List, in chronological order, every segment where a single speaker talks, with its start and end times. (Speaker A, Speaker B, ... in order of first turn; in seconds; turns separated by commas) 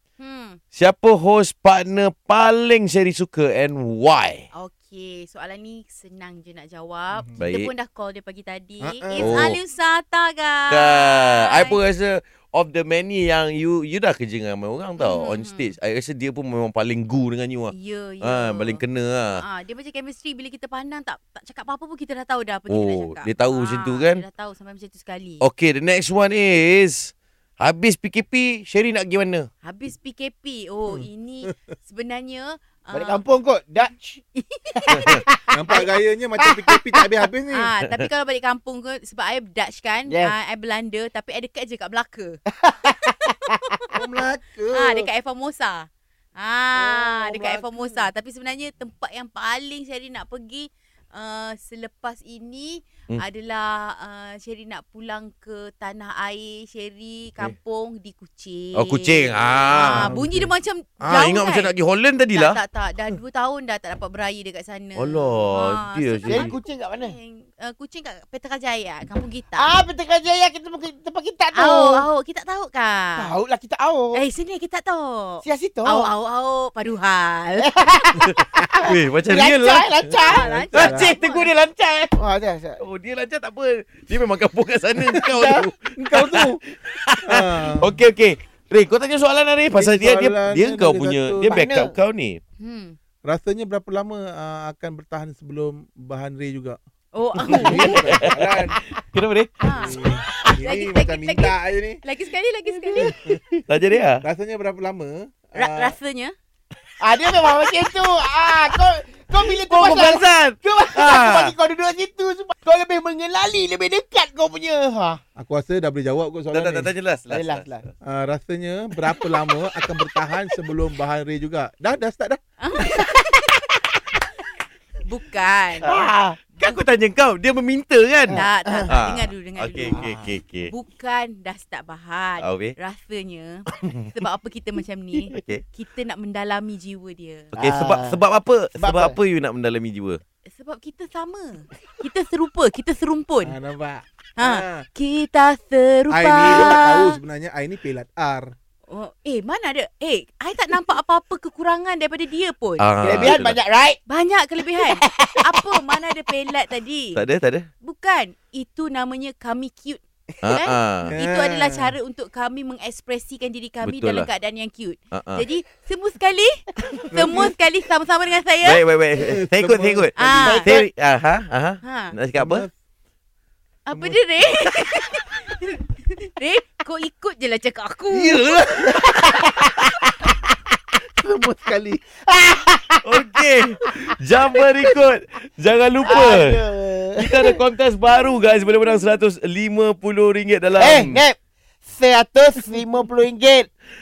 Speaker A: 0.2-0.6, Speaker B: 0.7-4.4, Speaker A: 4.5-11.8, Speaker B: 7.4-7.7, Speaker C: 8.9-9.4, Speaker B: 9.2-9.6, Speaker B: 10.7-19.4, Speaker A: 15.0-15.7, Speaker A: 17.7-18.8, Speaker A: 19.4-25.4, Speaker B: 22.7-24.2, Speaker B: 25.4-29.5, Speaker A: 29.6-33.2, Speaker D: 30.9-31.5, Speaker C: 32.9-34.2, Speaker A: 34.3-34.8, Speaker C: 34.7-37.2, Speaker D: 34.9-37.7, Speaker A: 37.5-43.9, Speaker C: 40.1-40.3, Speaker C: 42.5-43.8, Speaker D: 43.9-45.1, Speaker A: 44.7-61.7, Speaker D: 46.7-48.0, Speaker B: 58.7-60.1, Speaker D: 59.7-60.5, Speaker B: 61.0-62.6, Speaker A: 62.3-69.7, Speaker B: 64.9-66.5, Speaker C: 66.2-67.2, Speaker C: 69.6-72.0, Speaker A: 71.5-73.3, Speaker C: 73.2-74.2, Speaker A: 74.1-77.7, Speaker C: 75.4-76.1, Speaker C: 77.6-81.2, Speaker B: 78.2-82.1, Speaker A: 80.2-81.5, Speaker D: 80.6-81.1, Speaker C: 82.1-82.8, Speaker B: 82.8-92.4, Speaker D: 85.1-85.4, Speaker C: 85.2-85.6, Speaker D: 86.0-86.6, Speaker D: 87.2-88.0, Speaker D: 89.7-91.6, Speaker C: 91.5-91.9, Speaker A: 92.6-93.0, Speaker D: 93.2-96.8, Speaker A: 97.1-98.0, Speaker D: 97.4-98.8, Speaker B: 97.5-99.7, Speaker A: 99.6-100.0, Speaker D: 99.7-102.0, Speaker A: 100.6-103.2, Speaker D: 102.7-103.4, Speaker B: 103.7-104.2, Speaker D: 104.2-106.0, Speaker A: 105.5-106.3, Speaker C: 107.0-115.2, Speaker B: 109.4-111.5, Speaker D: 115.3-116.9, Speaker B: 116.5-117.8, Speaker C: 117.3-117.8, Speaker D: 118.0-122.4, Speaker A: 122.6-123.7, Speaker A: 125.0-125.9, Speaker C: 125.8-126.4, Speaker B: 125.8-130.7, Speaker C: 128.3-128.9, Speaker A: 128.3-130.1, Speaker C: 129.9-130.3, Speaker A: 130.7-137.5, Speaker B: 132.4-132.7, Speaker B: 133.8-134.1, Speaker B: 135.3-135.6, Speaker B: 137.5-140.2, Speaker C: 137.5-138.2, Speaker C: 138.7-139.2, Speaker A: 140.5-143.6, Speaker D: 143.4-144.8, Speaker A: 144.4-147.2, Speaker D: 146.1-148.5, Speaker C: 146.4-146.8, Speaker A: 148.9-153.4, Speaker B: 152.8-153.6, Speaker C: 153.0-154.0, Speaker A: 154.1-157.2, Speaker C: 154.8-155.4, Speaker B: 157.1-157.7, Speaker A: 157.8-168.8, Speaker B: 160.4-161.1, Speaker D: 161.1-161.9, Speaker B: 163.8-164.3, Speaker B: 165.1-165.4, Speaker D: 167.1-167.5, Speaker B: 168.6-172.7, Speaker D: 169.2-170.2, Speaker A: 170.2-170.7, Speaker C: 170.4-170.9, Speaker A: 171.8-172.1, Speaker D: 172.3-172.7, Speaker A: 173.8-178.6, Speaker C: 178.6-180.3, Speaker D: 181.2-182.0, Speaker C: 182.0-183.0, Speaker B: 183.0-186.6, Speaker C: 184.1-184.6, Speaker C: 186.0-187.6, Speaker B: 187.2-191.2, Speaker C: 190.8-193.7